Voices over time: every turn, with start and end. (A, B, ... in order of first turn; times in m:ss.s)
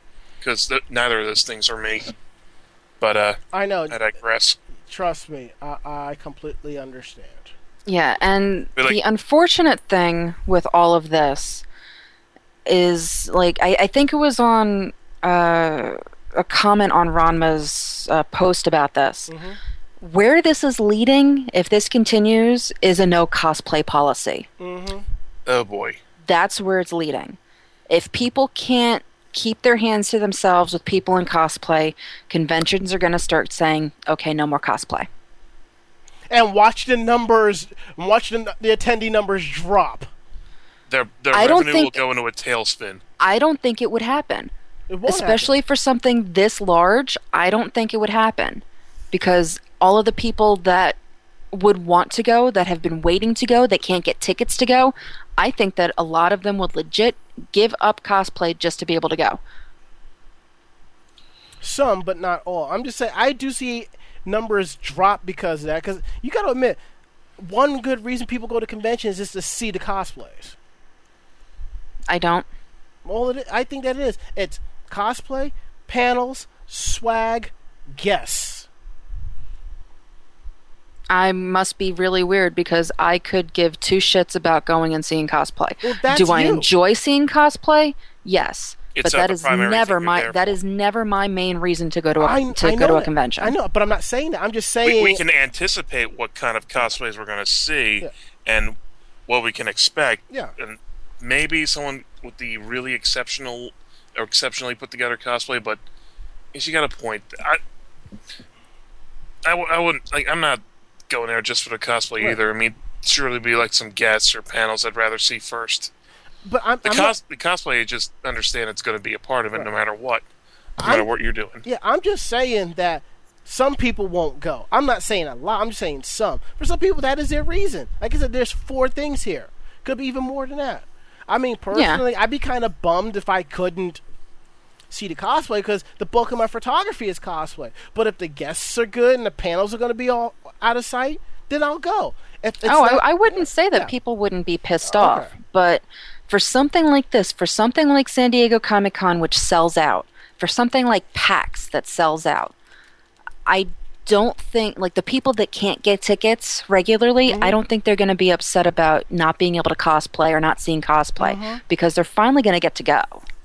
0:00.4-0:02.1 A
0:03.0-0:04.6 A
0:03.5-0:04.0 B
0:04.9-0:07.5 B
0:07.8-0:11.6 C
0:12.6-0:19.3 C
0:19.3-0:19.6 B
0:20.0-0:24.5 C
0:24.6-0:25.0 B
0:25.4-0:26.0 A
0:26.2-0:27.4 C
0:27.9-0:35.1 C
0:36.3-0:40.1 B
0:40.9-0:43.0 A
0:41.3-0:41.9 C
0:43.2-0:44.5 C
0:44.9-0:45.5 B
0:45.0-0:51.0 C
0:51.5-0:59.4 C
1:01.6-1:06.8 B
1:07.4-1:10.5 B
1:12.1-1:12.5 C
1:13.0-1:18.7 B
1:21.1-1:33.6 C
1:25.8-1:26.7 B
1:28.9-1:30.6 A
1:32.2-1:35.2 B
1:34.8-1:38.8 A
1:39.3-1:45.8 A
1:46.5-1:47.6 A
1:49.4-1:55.9 A
1:56.4-1:57.1 B
1:56.8-2:00.2 A
2:00.8-2:01.1 B
2:00.8-2:01.6 A
2:01.6-2:14.0 B
2:11.7-2:12.0 C
2:14.9-2:23.9 B
2:22.6-2:32.5 C
2:24.8-2:25.3 B
2:33.4-2:43.2 C
2:37.3-2:37.6 B
2:41.2-2:41.6 B